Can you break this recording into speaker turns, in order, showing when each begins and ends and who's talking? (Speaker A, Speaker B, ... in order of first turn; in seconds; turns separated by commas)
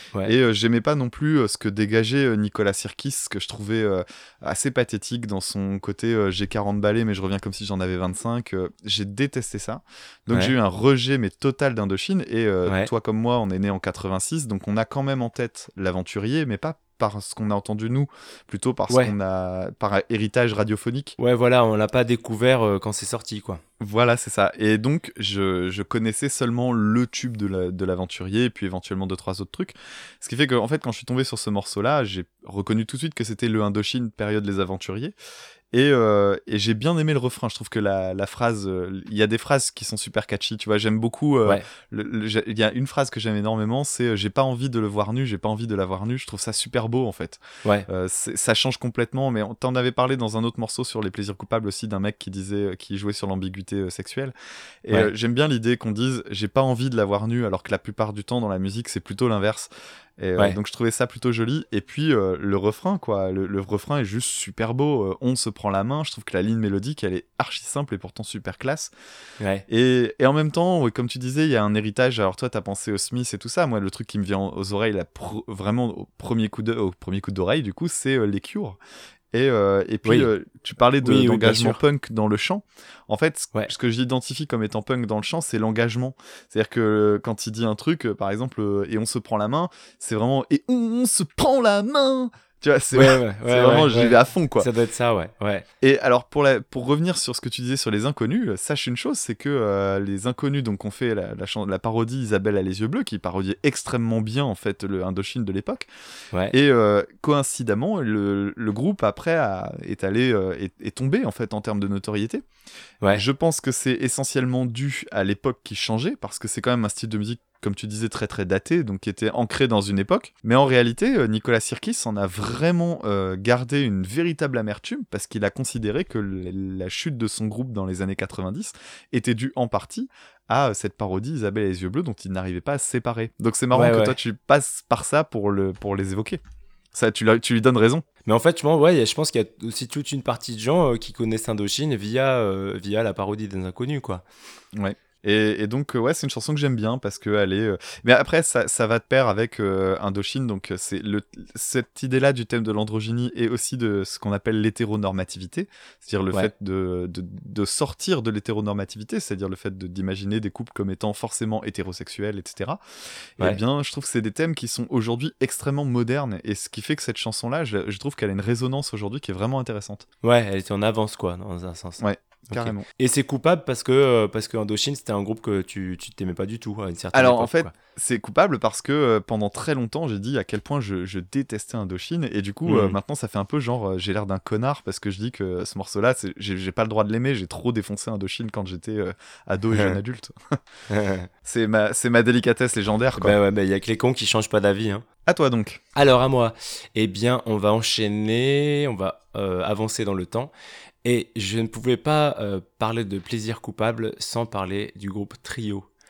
Speaker A: 0.2-21.1, Speaker B: 10.3-10.5, Speaker B: 18.9-19.1, Speaker B: 21.2-23.6, Speaker A: 23.8-35.1, Speaker A: 35.7-68.9, Speaker B: 69.4-69.6, Speaker A: 69.7-78.8, Speaker A: 79.3-94.7, Speaker B: 80.0-80.3, Speaker B: 81.0-81.8, Speaker B: 92.9-95.7, Speaker A: 95.8-105.9, Speaker A: 106.5-112.4, Speaker A: 113.1-136.4, Speaker B: 133.7-134.2, Speaker A: 136.9-138.0, Speaker B: 138.2-144.2, Speaker A: 144.7-162.8, Speaker A: 163.4-170.0, Speaker B: 170.2-177.7, Speaker A: 172.0-172.8, Speaker A: 177.1-190.6, Speaker B: 182.7-183.0, Speaker B: 190.9-191.3, Speaker A: 191.4-193.4, Speaker B: 193.2-195.0, Speaker A: 195.2-195.8, Speaker B: 195.9-200.5, Speaker B: 201.0-205.9